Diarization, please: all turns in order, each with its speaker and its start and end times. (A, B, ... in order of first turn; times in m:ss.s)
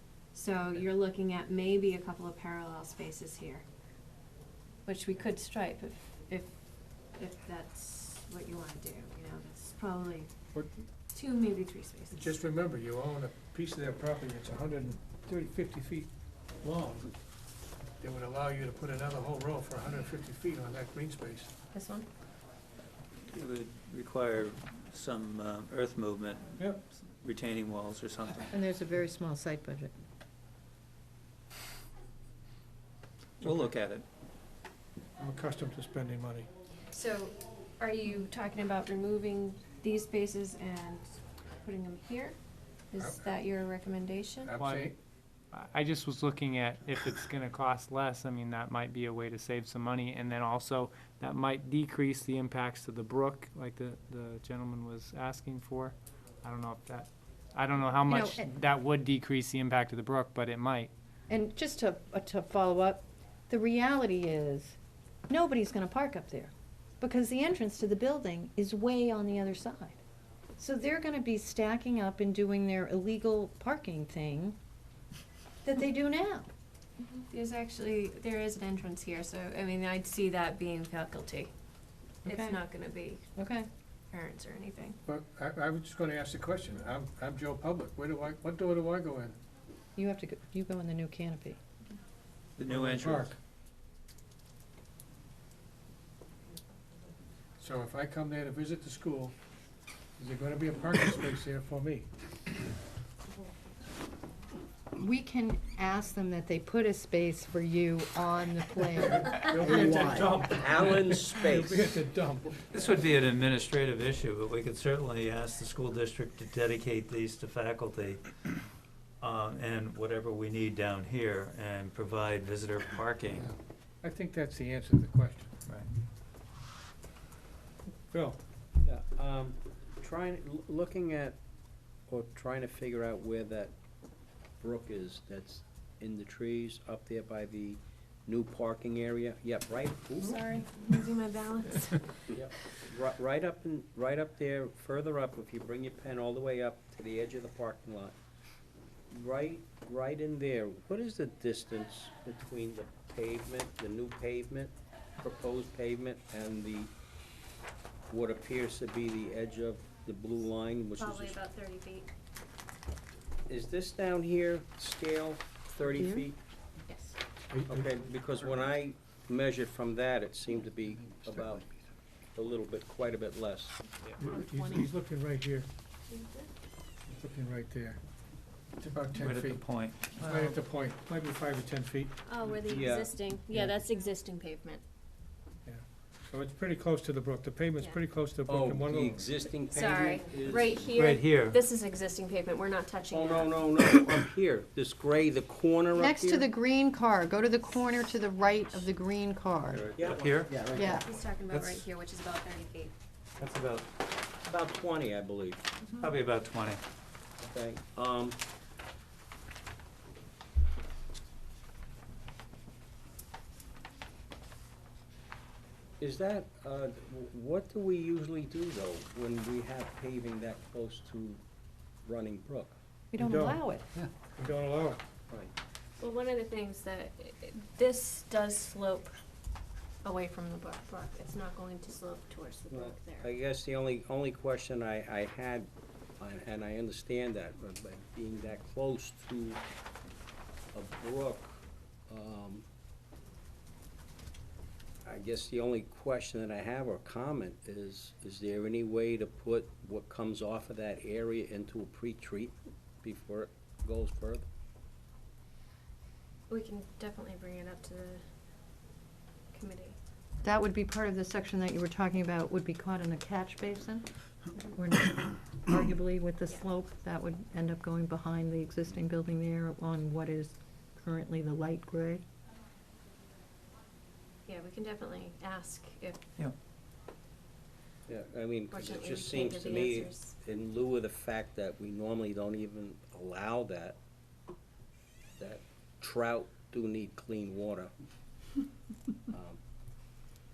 0:00.3-0:03.6 A
0:04.9-0:06.5 A
0:07.2-0:10.3 A
0:10.5-0:10.8 B
0:11.1-0:12.3 A
0:12.1-0:16.1 B
0:16.6-0:17.1 B
0:18.0-0:21.5 B
0:21.7-0:22.1 A
0:23.3-0:28.5 C
0:28.5-0:29.9 D
0:33.4-0:34.0 C
0:33.4-0:33.7 B
0:35.2-0:36.5 B
0:36.9-0:42.4 A
0:42.9-0:44.6 A
0:43.0-0:43.2 B
0:44.4-0:45.0 B
0:44.6-0:44.9 E
0:45.5-1:00.9 E
0:58.1-0:58.5 D
1:01.3-1:04.8 D
1:05.3-1:10.0 D
1:10.6-1:14.6 D
1:15.6-1:16.5 D
1:17.0-1:21.5 A
1:22.2-1:23.2 A
1:22.2-1:22.6 D
1:23.4-1:23.7 D
1:24.1-1:25.0 A
1:25.1-1:29.4 B
1:30.0-1:31.6 D
1:32.6-1:33.4 C
1:32.7-1:33.4 B
1:37.6-1:39.4 B
1:40.2-1:42.1 B
1:45.0-1:50.4 D
1:49.4-1:52.6 B
1:49.7-1:52.0 F
1:52.7-1:58.4 C
1:59.2-2:03.5 C
2:04.0-2:05.5 B
2:08.1-2:08.4 B
2:08.8-2:11.4 F
2:12.1-2:13.7 F
2:14.6-2:20.4 F
2:20.2-2:22.3 A
2:22.3-2:28.2 F
2:29.1-2:36.9 F
2:38.1-2:41.4 F
2:41.0-2:42.1 A
2:43.5-2:46.4 F
2:46.0-2:46.3 D
2:46.9-2:47.2 A
2:47.5-2:48.0 B
2:47.7-2:51.6 F
2:52.4-2:53.8 F
2:54.2-2:55.7 B
2:54.2-2:54.9 A
2:56.1-2:56.5 A
2:57.1-2:58.0 B
2:58.8-2:59.6 B
2:59.2-3:00.6 C
3:00.2-3:02.1 B
3:02.3-3:04.8 A
3:02.7-3:03.1 F
3:05.6-3:09.3 B
3:08.5-3:11.0 F
3:09.7-3:13.6 A
3:11.0-3:11.6 C
3:13.1-3:16.5 F
3:15.9-3:19.9 D
3:19.7-3:20.7 C
3:20.0-3:20.8 F
3:20.7-3:21.1 D
3:20.8-3:22.9 A
3:21.5-3:21.8 C
3:23.4-3:23.9 C
3:24.4-3:25.7 F
3:26.0-3:26.8 C
3:27.4-3:28.4 F
3:36.0-3:41.4 F
3:42.0-3:42.8 F
3:43.1-3:43.9 D
3:43.2-3:45.0 B
3:46.0-3:49.2 A
3:50.0-3:53.3 A
3:52.7-3:59.6 F
4:00.7-4:02.6 F
4:05.0-4:14.5 F
4:16.5-4:18.2 A
4:19.5-4:20.0 A
4:20.4-4:32.2 D
4:34.5-4:36.2 A
4:38.1-4:44.0 F
4:38.7-4:40.3 A
4:45.4-4:47.9 F
4:49.3-4:49.6 F